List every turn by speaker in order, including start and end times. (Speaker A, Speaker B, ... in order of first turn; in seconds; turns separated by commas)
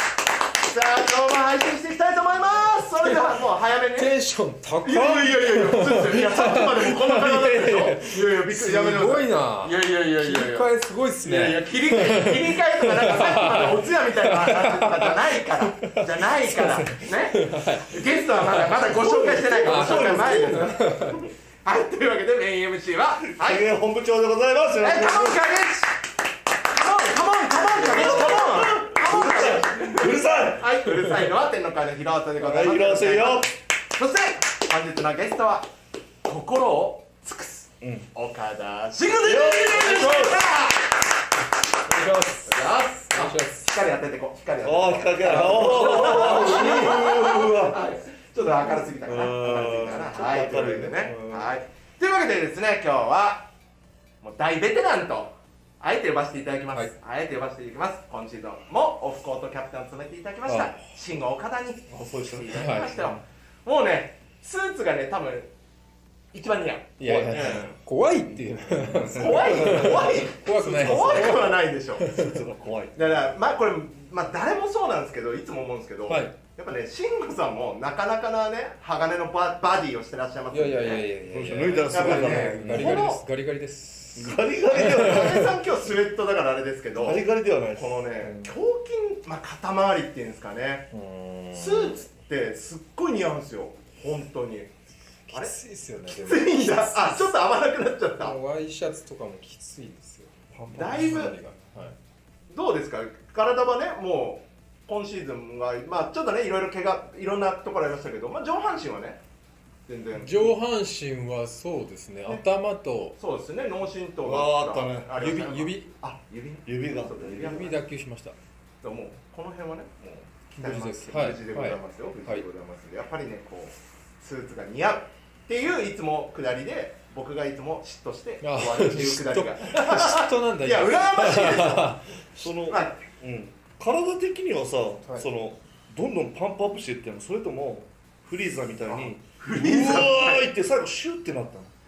Speaker A: 0.6-4.1, Speaker B: 4.0-16.1, Speaker A: 4.8-23.7, Speaker B: 17.3-18.7, Speaker C: 18.9-20.8, Speaker B: 19.6-21.2, Speaker C: 23.3-25.4, Speaker A: 24.8-25.9, Speaker A: 26.7-35.7, Speaker C: 27.7-30.7, Speaker B: 30.9-31.2, Speaker C: 32.4-33.5, Speaker A: 36.2-40.9, Speaker C: 37.8-38.1, Speaker C: 39.2-40.5, Speaker B: 39.9-40.2, Speaker B: 41.9-43.7, Speaker A: 42.5-53.5, Speaker C: 44.6-47.9, Speaker B: 45.2-47.0, Speaker C: 48.6-51.6, Speaker A: 54.2-65.5, Speaker B: 60.5-60.9, Speaker C: 61.9-63.2, Speaker B: 62.5-63.0, Speaker A: 66.3-67.8, Speaker B: 67.0-72.3, Speaker C: 68.3-73.4, Speaker A: 69.1-72.2, Speaker A: 73.0-81.1, Speaker B: 76.1-76.3, Speaker B: 80.5-85.5, Speaker C: 81.3-83.1, Speaker A: 81.9-83.2, Speaker C: 84.2-85.5, Speaker A: 84.7-87.2, Speaker C: 87.0-88.5, Speaker A: 87.7-90.9, Speaker B: 90.9-92.0, Speaker A: 91.5-94.7, Speaker B: 95.3-97.3, Speaker A: 96.1-98.4, Speaker B: 98.2-102.0, Speaker C: 100.5-101.4, Speaker A: 100.8-101.3, Speaker A: 102.5-109.2, Speaker A: 109.9-110.5, Speaker B: 110.2-113.2, Speaker A: 113.2-117.8, Speaker C: 114.2-115.2, Speaker B: 115.2-115.9, Speaker C: 116.7-117.6, Speaker B: 117.4-118.3, Speaker A: 118.8-131.9, Speaker B: 120.6-122.5, Speaker B: 128.4-132.2, Speaker C: 132.4-141.7, Speaker A: 132.5-133.0, Speaker A: 138.9-140.5